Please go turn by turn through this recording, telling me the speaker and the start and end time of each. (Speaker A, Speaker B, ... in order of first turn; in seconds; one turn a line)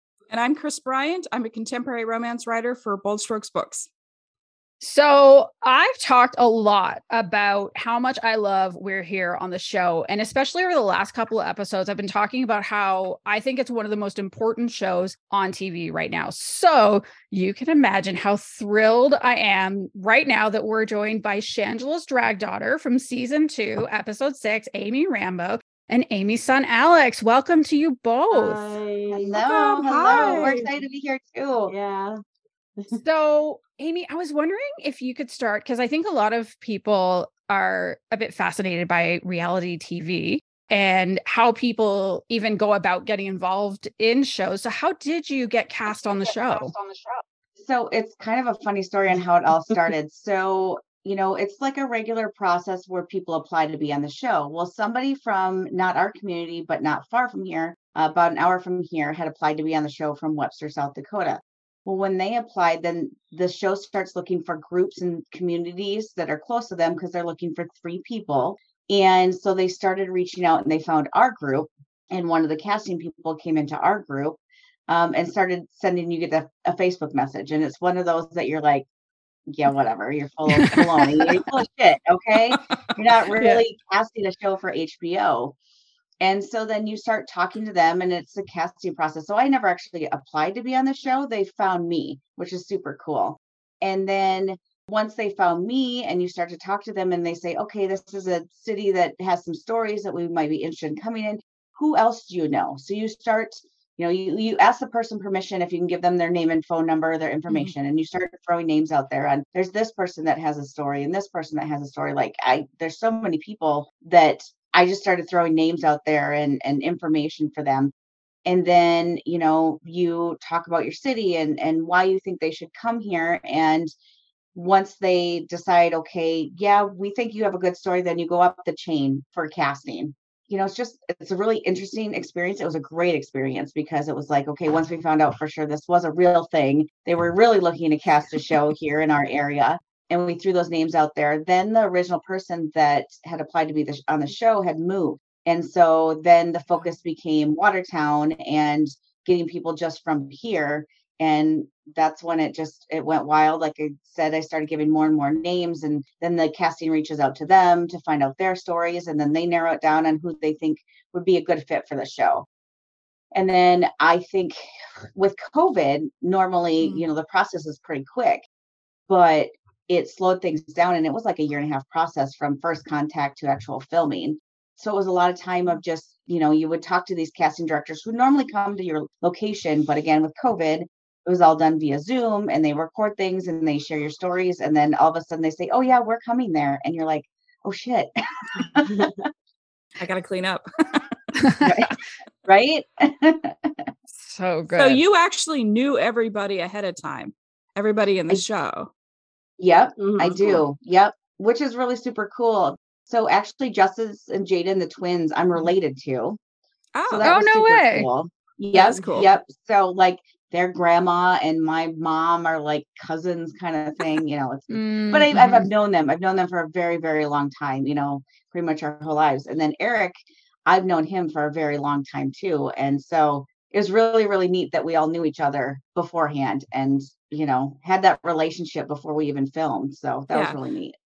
Speaker A: 0.3-3.9
Speaker B: 4.8-28.8
Speaker C: 28.3-29.4
Speaker D: 29.1-31.7
Speaker A: 29.4-30.7
Speaker C: 31.7-32.2
Speaker B: 32.9-46.8
Speaker D: 47.6-78.8
Speaker D: 79.5-85.5
Speaker B: 80.7-81.3
Speaker D: 86.2-117.9
Speaker A: 107.5-107.7
Speaker D: 118.5-123.9
Speaker D: 124.5-162.5
Speaker D: 163.3-168.4
Speaker D: 169.1-189.1
Speaker A: 190.0-190.6
Speaker B: 191.4-191.9
Speaker D: 191.6-191.9
Speaker D: 192.4-193.9
Speaker B: 194.1-195.0
Speaker A: 194.7-198.9
Speaker D: 199.6-206.4
Speaker C: 200.0-200.4
Speaker A: 200.3-200.6
Speaker A: 206.9-207.3
Speaker D: 207.1-230.9
Speaker B: 207.2-208.1
Speaker C: 208.7-209.2
Speaker A: 208.8-209.3
Speaker B: 214.7-215.6
Speaker A: 215.3-215.6
Speaker A: 230.3-230.6